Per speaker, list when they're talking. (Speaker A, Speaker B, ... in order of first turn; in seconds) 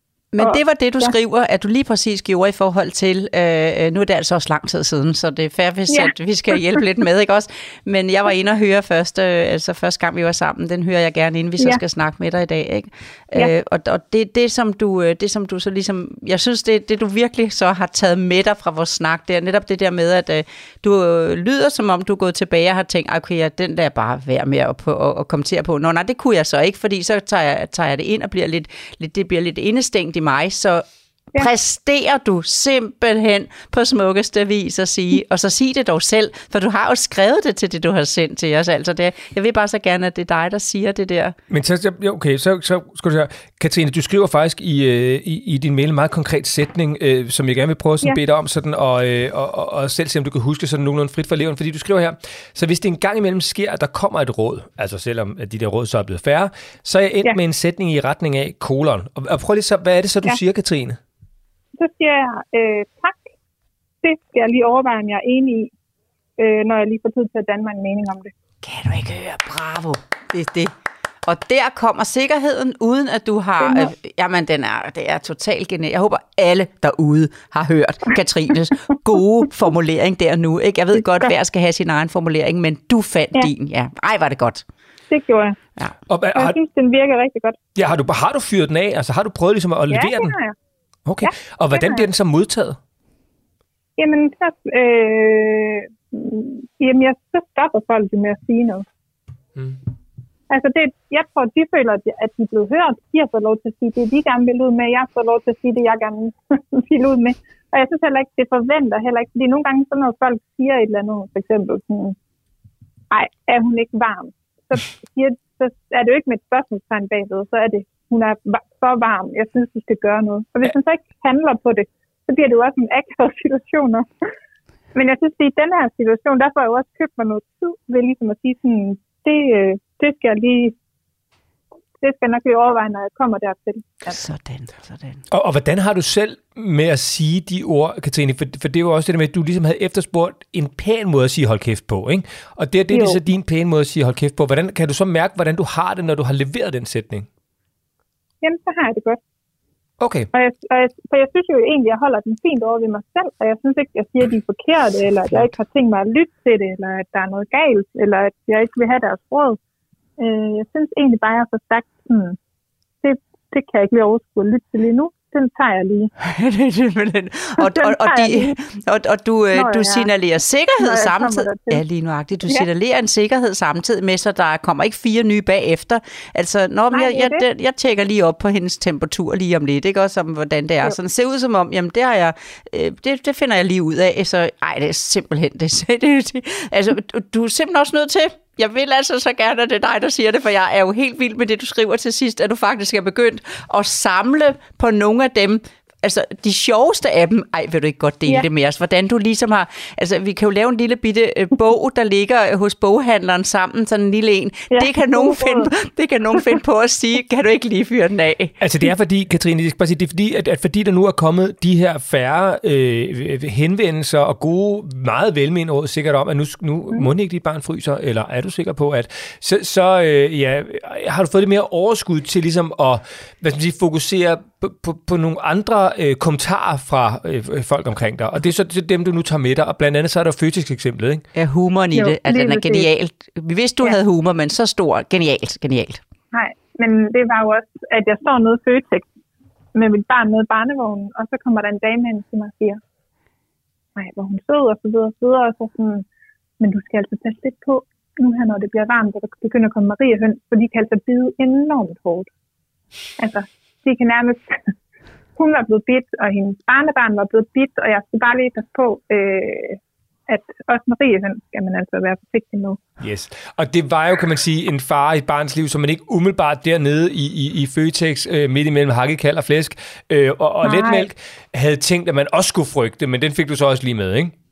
Speaker A: 0.3-41.4, 68.6-70.7, 71.2-84.7, 134.1-135.2, 166.2-208.6, 231.3-236.0
Speaker B: 0.4-1.1, 61.8-63.3, 64.0-65.7, 66.4-68.3, 73.6-73.9, 85.1-85.6, 86.3-87.6, 89.9-90.5, 91.2-92.1, 94.0-98.9, 100.5-112.2, 113.1-124.1, 124.9-130.8, 132.0-134.2, 142.9-143.2, 148.4-149.2, 150.3-159.6, 160.2-162.4, 163.0-166.1, 167.6-168.6, 169.5-170.1, 170.8-171.8, 176.9-177.4, 204.7-205.7, 231.9-232.9, 236.3-239.1, 239.8-242.8, 244.0-246.1, 246.6-252.3, 253.2-254.7, 255.4-262.8, 270.6-271.1
Speaker C: 41.5-61.0, 86.1-86.6, 87.8-90.3, 91.1-92.8, 135.3-147.3, 150.0-150.3, 208.6-231.2, 263.0-274.3